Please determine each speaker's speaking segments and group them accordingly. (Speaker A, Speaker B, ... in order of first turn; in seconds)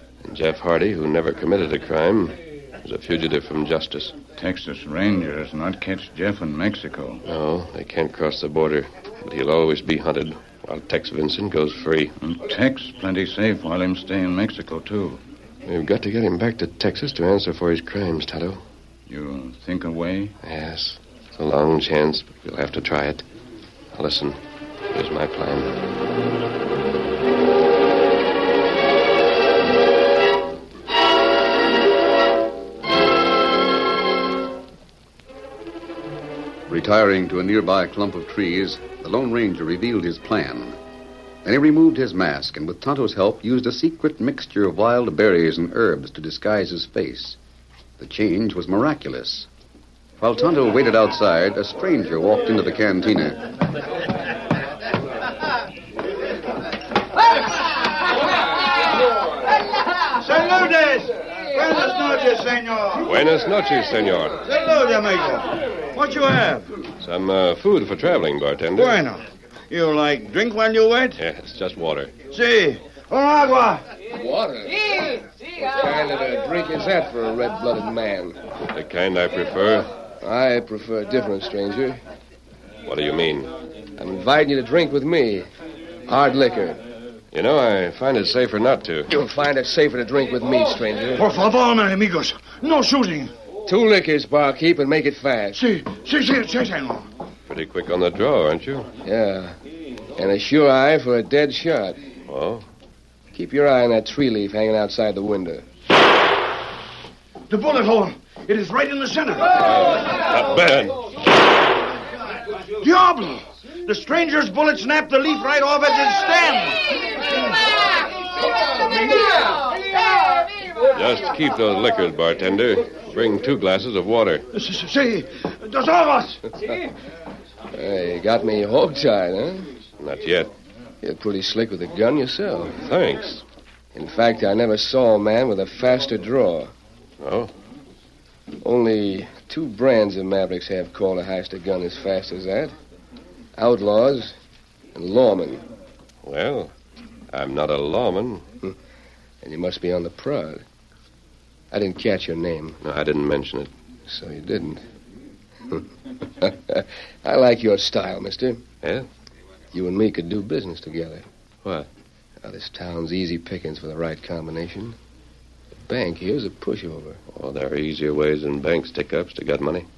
Speaker A: 0.2-4.2, 7.2-12.1, 15.7-18.6, 20.4-23.2, 23.9-24.4, 24.9-25.8, 63.0-64.4, 67.0-69.0, 71.2-72.1, 78.7-79.9, 82.9-83.5, 87.3-89.1, 97.5-98.9, 102.3-102.7, 109.7-111.0, 120.9-124.5, 130.0-130.5, 132.8-133.4, 137.2-137.5, 146.2-146.7, 147.3-148.5, 152.8-153.7, 158.8-159.1, 167.3-169.9
Speaker B: 4.4-7.2, 12.2-15.2, 19.1-20.4
Speaker C: 36.7-40.8, 41.5-47.4, 48.0-49.5, 50.2-53.4
Speaker D: 60.2-63.1, 64.5-66.7, 68.8-71.2, 72.3-73.9, 91.2-93.3, 95.5-97.1, 107.5-109.5, 112.8-117.0, 124.5-126.4
Speaker E: 74.1-78.4, 80.2-82.0, 84.0-85.5, 86.1-86.8, 89.1-91.3, 93.7-95.6, 99.0-99.6, 100.2-102.1, 103.3-105.7, 127.7-129.7, 131.0-132.8, 133.9-136.7, 138.6-142.7, 143.6-144.4, 144.9-145.6, 149.4-150.6, 151.7-152.8, 154.1-154.8, 156.4-158.7, 159.7-161.3, 162.4-165.0, 165.9-167.2